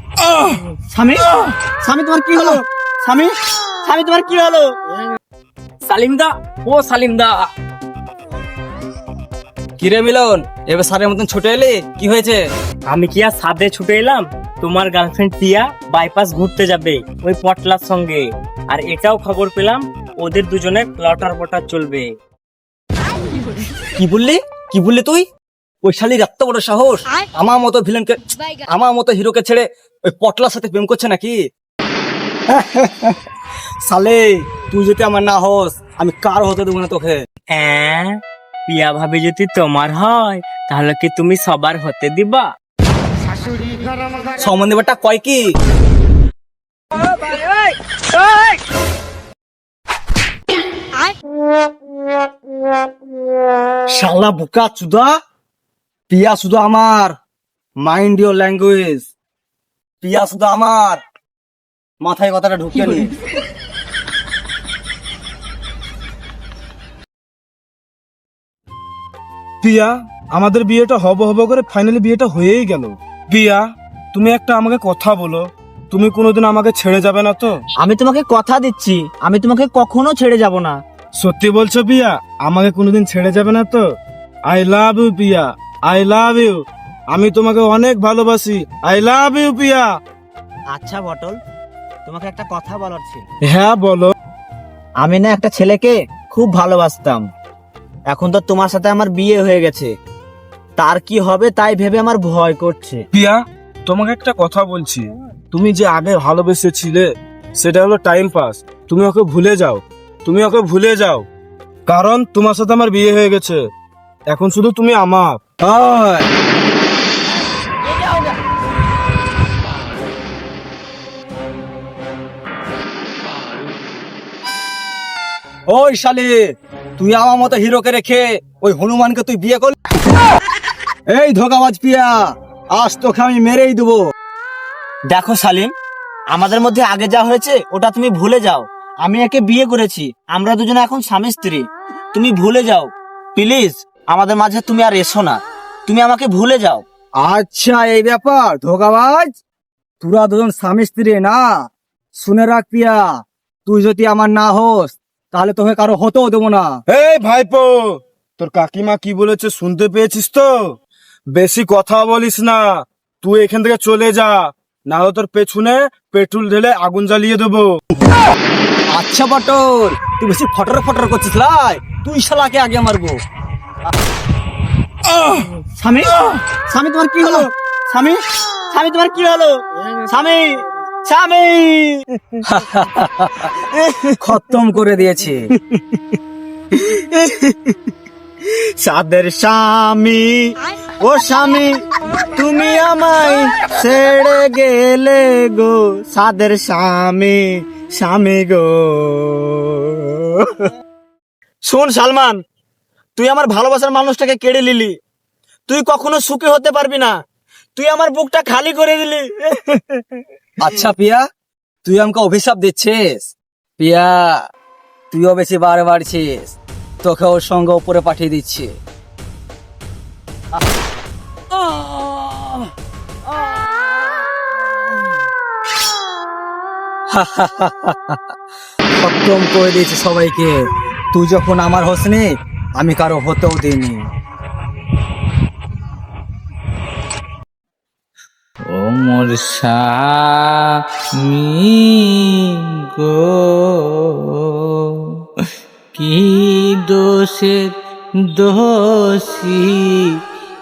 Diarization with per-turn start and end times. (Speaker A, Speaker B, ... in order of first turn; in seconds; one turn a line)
Speaker A: 0.9-4.7
Speaker B: 5.8-7.5
Speaker C: 9.8-12.4
Speaker B: 12.9-22.1
Speaker C: 23.9-25.2
Speaker C: 25.8-31.4
Speaker C: 32.5-33.2
Speaker C: 33.8-37.2
Speaker B: 37.5-42.5
Speaker C: 44.3-45.4
Speaker C: 53.9-55.1
Speaker C: 56.1-57.1
Speaker C: 57.8-59.1
Speaker C: 60.0-61.0
Speaker C: 62.0-63.1
Speaker D: 69.6-77.6
Speaker A: 77.8-80.8
Speaker D: 81.2-83.8
Speaker D: 84.5-89.9
Speaker A: 90.7-91.4
Speaker A: 92.0-93.2
Speaker D: 93.5-94.1
Speaker A: 95.0-97.2
Speaker A: 98.1-99.9
Speaker A: 100.8-103.0
Speaker D: 103.1-111.2
Speaker D: 111.9-113.6
Speaker D: 114.3-115.4
Speaker C: 115.6-116.3
Speaker C: 125.7-126.3
Speaker C: 127.0-129.8
Speaker C: 131.1-132.2
Speaker C: 132.7-134.0
Speaker A: 135.1-135.7
Speaker A: 136.3-146.8
Speaker C: 147.2-149.3
Speaker C: 150.0-151.6
Speaker C: 152.1-153.1
Speaker C: 153.7-156.8
Speaker D: 156.9-160.8
Speaker D: 161.3-167.8
Speaker C: 168.9-173.2
Speaker A: 175.8-182.0
Speaker C: 182.4-183.5
Speaker A: 183.7-184.1
Speaker C: 184.2-185.5
Speaker A: 186.7-187.8
Speaker A: 188.8-191.8
Speaker A: 192.3-200.6
Speaker A: 201.6-202.4
Speaker A: 203.2-204.9
Speaker A: 205.7-207.1
Speaker A: 207.8-210.0
Speaker C: 210.6-211.2
Speaker C: 211.8-214.3
Speaker C: 215.1-218.7
Speaker C: 227.1-228.2
Speaker C: 229.0-232.3
Speaker C: 232.8-234.0
Speaker E: 238.7-245.2
Speaker E: 245.9-247.7
Speaker E: 248.3-250.2